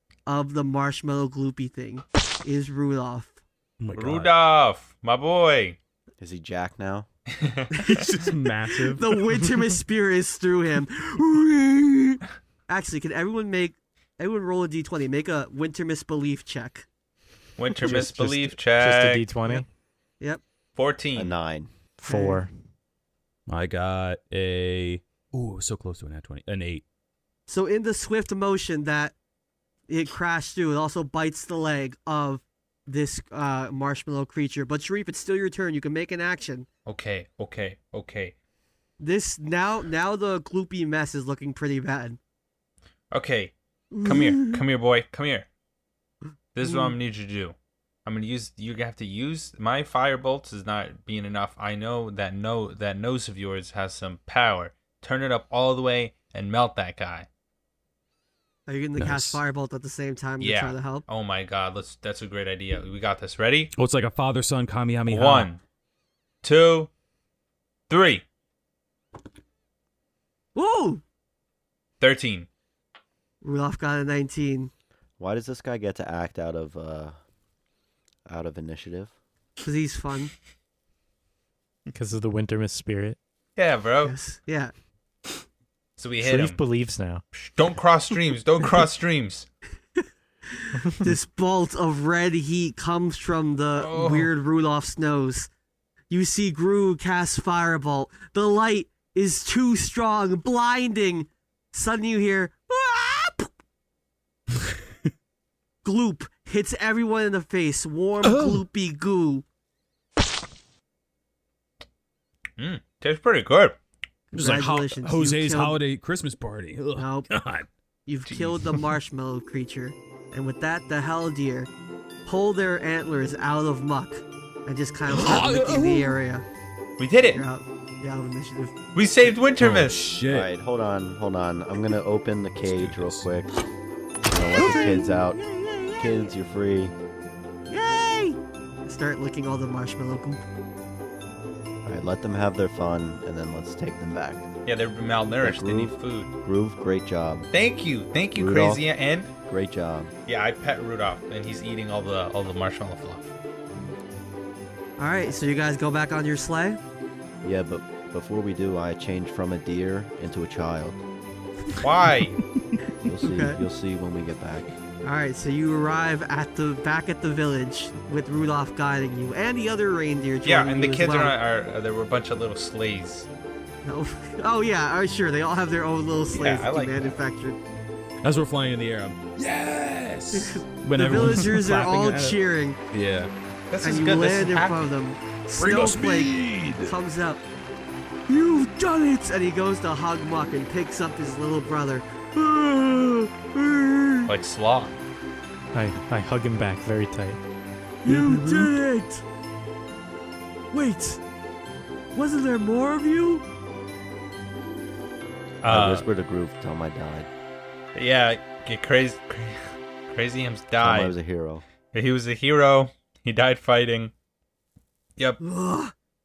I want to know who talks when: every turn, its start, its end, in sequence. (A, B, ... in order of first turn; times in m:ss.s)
0:00.2-0:03.4 A
0:03.8-0:04.3 B
0:03.9-0:05.8 C
0:06.2-0:07.1 D
0:07.3-0:08.0 C
0:07.8-0:09.4 B
0:07.8-0:08.1 A
0:08.8-0:16.8 A
0:17.6-0:19.2 C
0:17.8-0:19.6 E
0:20.8-0:21.3 C
0:21.1-0:21.7 D
0:22.0-0:22.5 E
0:22.0-0:22.4 A
0:23.5-0:26.8 B
0:27.5-0:29.1 A
0:29.9-0:36.7 A
0:36.8-0:38.3 C
0:39.0-0:42.2 A
0:43.1-0:45.5 C
0:43.9-0:44.6 A
0:46.5-0:57.3 C
0:46.6-0:46.9 A
0:58.7-1:01.0 A
0:59.0-0:59.4 B
1:00.4-1:03.7 C
1:03.7-1:05.5 B
1:05.1-1:05.6 C
1:06.4-1:06.9 C
1:07.9-1:08.2 C
1:10.5-1:11.0 A
1:12.0-1:12.5 C
1:13.4-1:14.7 A
1:15.2-1:17.2 D
1:18.3-1:19.1 D
1:19.6-1:20.3 A
1:21.9-1:23.2 E
1:23.6-1:24.2 C
1:24.0-1:24.7 A
1:26.0-1:26.6 C
1:26.2-1:27.2 E
1:27.3-1:29.5 C
1:30.6-1:35.5 A
1:30.8-1:31.1 E
1:33.8-1:34.3 C
1:36.1-1:43.5 A
1:45.8-1:49.4 A
1:48.2-1:48.6 B
1:52.6-1:53.8 C
1:54.3-1:55.8 A
1:54.3-1:57.7 B
1:57.0-1:57.3 A
1:58.1-2:01.7 A
1:58.3-1:58.6 C
2:02.2-2:06.4 A
2:05.1-2:06.2 B
2:07.0-2:07.4 C
2:07.3-2:08.7 A
2:08.9-2:10.1 C
2:09.6-2:10.5 B
2:10.3-2:13.5 D
2:12.6-2:13.3 B
2:14.2-2:15.4 D
2:14.6-2:15.2 B
2:14.6-2:16.3 A
2:16.0-2:16.9 D
2:17.7-2:20.4 A
2:21.8-2:24.5 D
2:24.6-2:26.3 C
2:25.4-2:27.5 D
2:27.5-2:29.3 C
2:28.3-2:28.8 D
2:29.5-2:30.1 D
2:30.3-2:33.3 C
2:35.0-2:36.8 A
2:37.4-2:41.0 D
2:41.8-2:42.4 C
2:43.0-2:44.7 D
2:43.2-2:43.6 A
2:45.0-2:51.4 A
2:50.4-2:53.3 C
2:53.8-2:57.6 A
2:56.3-2:57.2 C
2:58.2-3:02.4 B
3:00.3-3:02.8 A
3:02.9-3:03.3 B
3:03.7-3:04.9 C
3:03.8-3:07.4 A
3:05.6-3:06.9 B
3:08.3-3:14.3 A
3:14.3-3:15.0 C
3:15.7-3:17.4 E
3:18.0-3:19.2 A
3:18.1-3:18.7 E
3:20.7-3:21.2 A
3:22.1-3:23.4 A
3:25.6-3:26.0 C
3:25.6-3:27.3 D
3:27.9-3:31.2 C
3:30.8-3:31.6 D
3:31.9-3:34.1 C
3:35.4-3:35.9 A